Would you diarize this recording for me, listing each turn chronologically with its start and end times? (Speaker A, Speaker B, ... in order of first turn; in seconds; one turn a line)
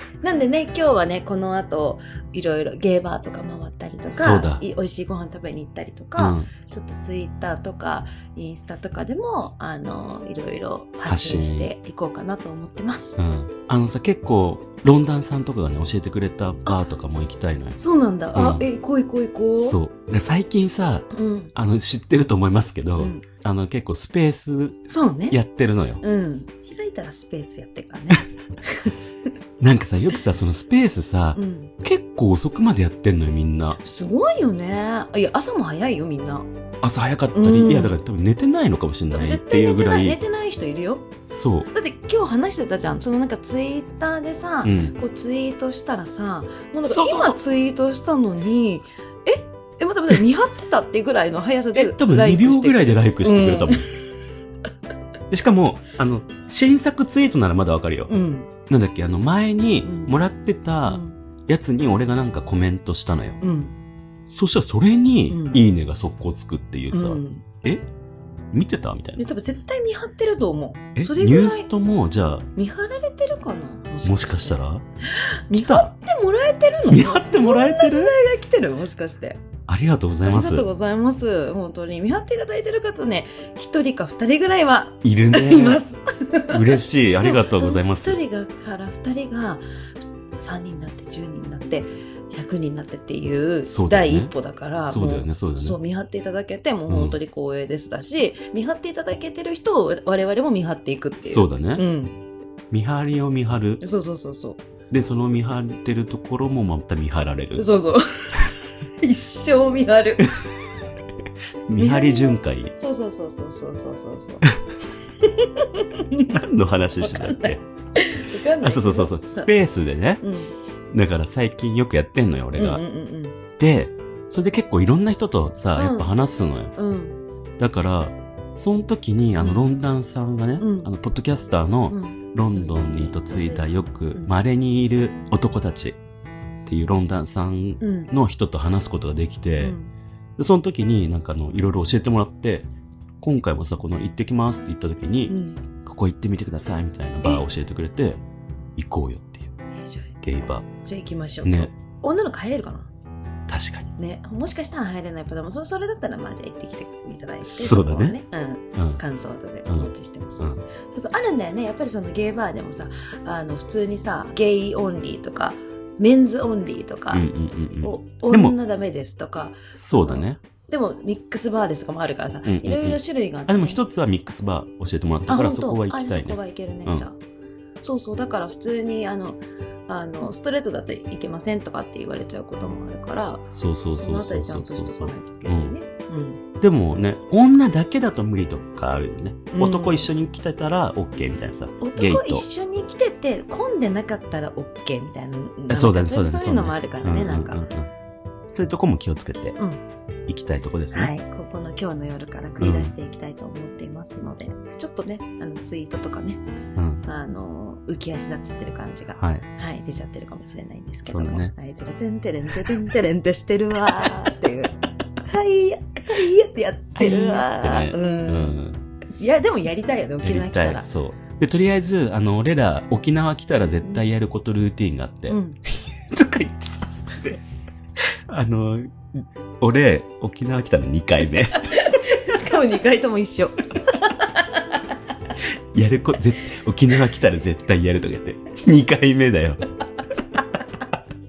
Speaker A: 0.2-13.2
Speaker B: 4.1-4.6
Speaker B: 6.2-6.5
Speaker B: 11.1-11.7
Speaker B: 13.2-17.8
Speaker A: 17.8-19.8
Speaker B: 18.3-18.6
Speaker B: 19.6-26.0
Speaker A: 21.1-21.5
Speaker A: 23.0-23.2
Speaker A: 24.9-25.4
Speaker A: 26.0-28.9
Speaker B: 29.6-33.8
Speaker A: 31.3-31.7
Speaker A: 33.8-36.5
Speaker B: 36.8-40.2
Speaker A: 37.3-37.9
Speaker A: 39.1-41.1
Speaker B: 41.3-41.7
Speaker A: 41.7-54.0
Speaker B: 44.6-44.9
Speaker B: 46.9-47.4
Speaker B: 51.7-53.9
Speaker B: 55.3-58.1
Speaker A: 58.1-58.5
Speaker B: 58.7-63.4
Speaker A: 59.8-60.2
Speaker A: 60.9-61.1
Speaker A: 63.4-63.7
Speaker B: 64.3-67.8
Speaker A: 65.3-65.6
Speaker A: 66.9-67.4
Speaker B: 68.5-69.2
Speaker A: 69.2-71.7
Speaker B: 71.0-72.5
Speaker A: 72.5-74.6
Speaker B: 74.0-74.8
Speaker A: 75.1-79.4
Speaker B: 75.5-75.9
Speaker B: 76.9-78.1
Speaker B: 79.7-80.7
Speaker A: 80.2-89.6
Speaker B: 85.0-85.8
Speaker B: 86.5-88.2
Speaker A: 90.3-102.2
Speaker B: 93.7-95.8
Speaker B: 96.9-97.2
Speaker B: 101.2-101.8
Speaker B: 102.7-103.8
Speaker A: 103.8-104.6
Speaker B: 104.9-107.7
Speaker A: 107.5-110.3
Speaker B: 111.7-112.7
Speaker A: 111.8-114.5
Speaker A: 115.2-116.4
Speaker B: 116.3-117.6
Speaker A: 117.0-119.5
Speaker B: 118.6-120.2
Speaker A: 120.2-120.5
Speaker B: 120.9-122.8
Speaker A: 122.5-123.4
Speaker B: 123.6-126.7
Speaker A: 125.7-126.1
Speaker A: 126.8-127.2
Speaker B: 127.6-136.0
Speaker A: 129.4-129.6
Speaker A: 130.6-130.9
Speaker A: 131.9-134.3
Speaker B: 136.7-139.8
Speaker A: 137.8-138.1
Speaker A: 139.6-139.9
Speaker B: 140.4-142.7
Speaker B: 143.2-148.2
Speaker A: 145.3-145.6
Speaker B: 148.8-149.5
Speaker A: 149.8-150.2
Speaker B: 150.2-150.7
Speaker A: 150.8-152.9
Speaker B: 151.4-151.7
Speaker B: 153.5-153.9
Speaker A: 154.0-167.2
Speaker B: 157.4-158.2
Speaker B: 158.8-159.0
Speaker B: 159.7-160.6
Speaker B: 167.1-168.5
Speaker A: 167.8-173.8
Speaker B: 169.7-170.4
Speaker B: 172.4-177.0
Speaker A: 175.3-177.2
Speaker A: 177.8-186.4
Speaker B: 183.5-185.8
Speaker B: 186.6-192.4
Speaker A: 189.5-190.1
Speaker A: 191.8-197.6
Speaker B: 195.7-197.9
Speaker B: 198.5-199.6
Speaker B: 200.3-201.1
Speaker A: 200.9-206.4
Speaker B: 202.6-202.9
Speaker B: 206.8-207.0
Speaker A: 207.1-214.7
Speaker B: 209.2-209.4
Speaker B: 211.1-211.5
Speaker A: 215.2-218.6
Speaker B: 216.9-218.8
Speaker A: 219.2-220.8
Speaker B: 220.2-227.4
Speaker A: 225.3-225.6
Speaker B: 228.3-231.6
Speaker A: 231.6-234.8
Speaker B: 235.7-239.6